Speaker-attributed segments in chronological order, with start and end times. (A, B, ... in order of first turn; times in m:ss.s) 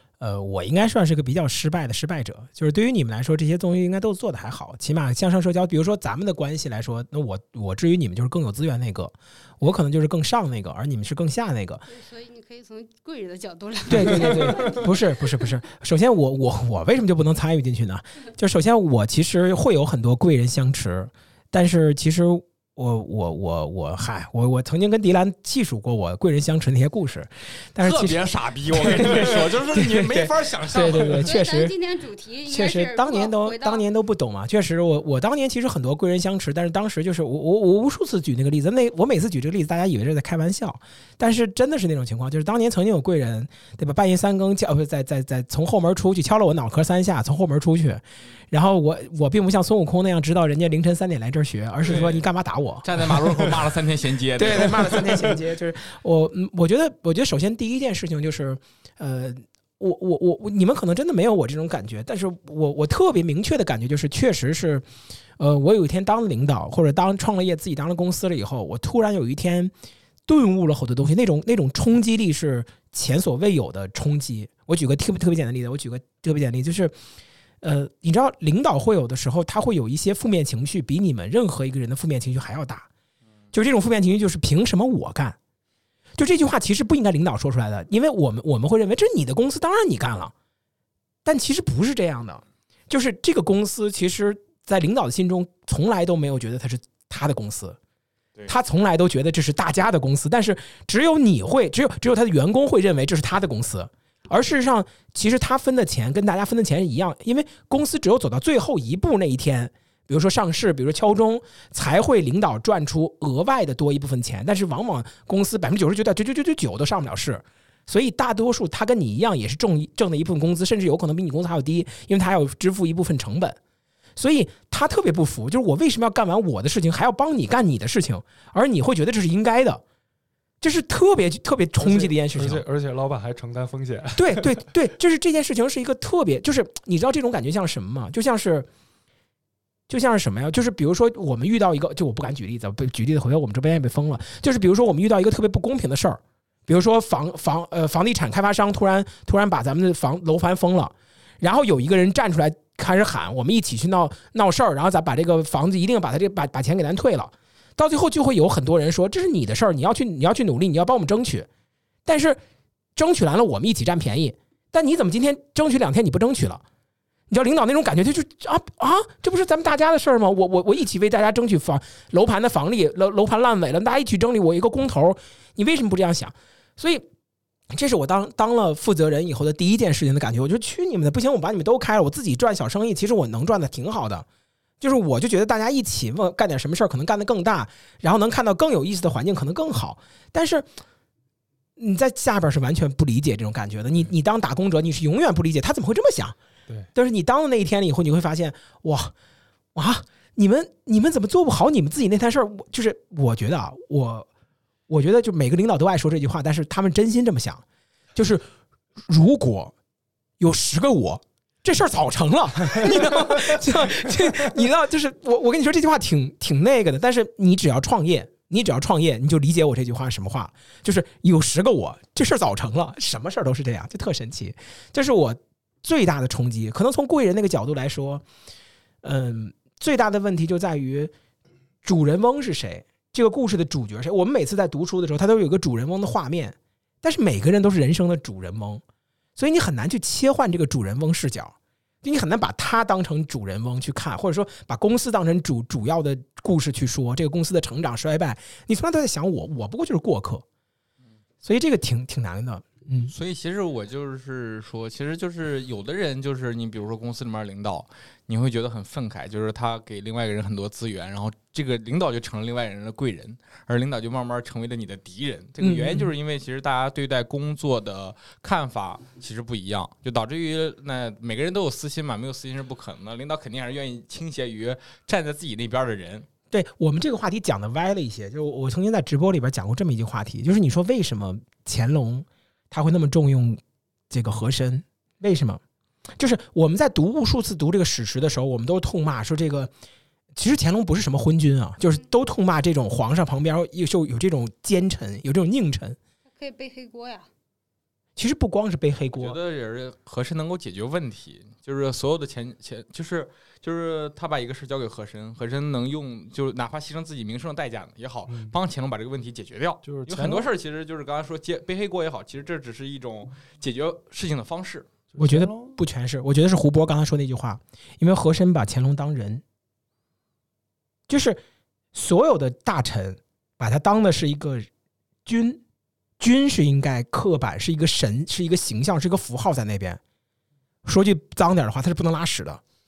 0:00.2-0:11.8 A
0:11.9-0:15.2 B
0:13.9-0:31.8 A
0:14.3-0:14.6 C
0:27.8-0:31.3 D
0:31.2-0:33.8 B
0:32.5-0:52.9 A
0:51.9-0:52.2 D
0:52.8-0:55.1 D
0:54.4-1:04.8 A
1:05.4-1:09.7 A
1:10.3-1:16.9 A
1:17.6-1:22.9 A
1:23.5-1:25.4 A
1:26.2-1:30.3 A
1:31.2-1:37.8 A
1:38.5-2:03.6 A
2:04.2-2:09.8 A
2:10.6-2:12.6 A
2:11.8-2:14.6 C
2:14.2-2:18.7 A
2:19.9-2:41.5 A
2:42.1-2:42.4 A
2:43.0-2:46.6 A
2:47.3-2:57.1 A
2:57.7-3:04.3 A
3:04.8-3:10.7 A
3:11.8-3:16.4 A
3:16.9-3:19.1 A
3:19.8-3:24.3 A
3:24.9-3:27.6 A
3:28.2-3:28.4 A
3:29.1-3:29.7 A
3:30.4-3:48.2 A
3:49.0-3:51.1 A
3:51.8-3:58.8 A
3:59.4-4:10.4 A
4:11.4-4:13.1 A
4:13.1-4:36.3 D
4:25.6-4:26.1 A
4:36.5-4:45.6 A
4:46.2-4:49.7 A
4:50.4-4:56.0 A
4:56.3-4:57.3 B
4:58.2-4:59.4 A
4:59.1-5:14.9 D
5:08.3-5:08.5 C
5:09.8-5:10.5 C
5:15.1-5:15.8 C
5:15.2-5:19.4 A
5:21.1-5:21.4 A
5:21.9-5:24.7 A
5:25.3-5:25.6 A
5:26.2-5:30.0 A
5:30.8-5:32.6 A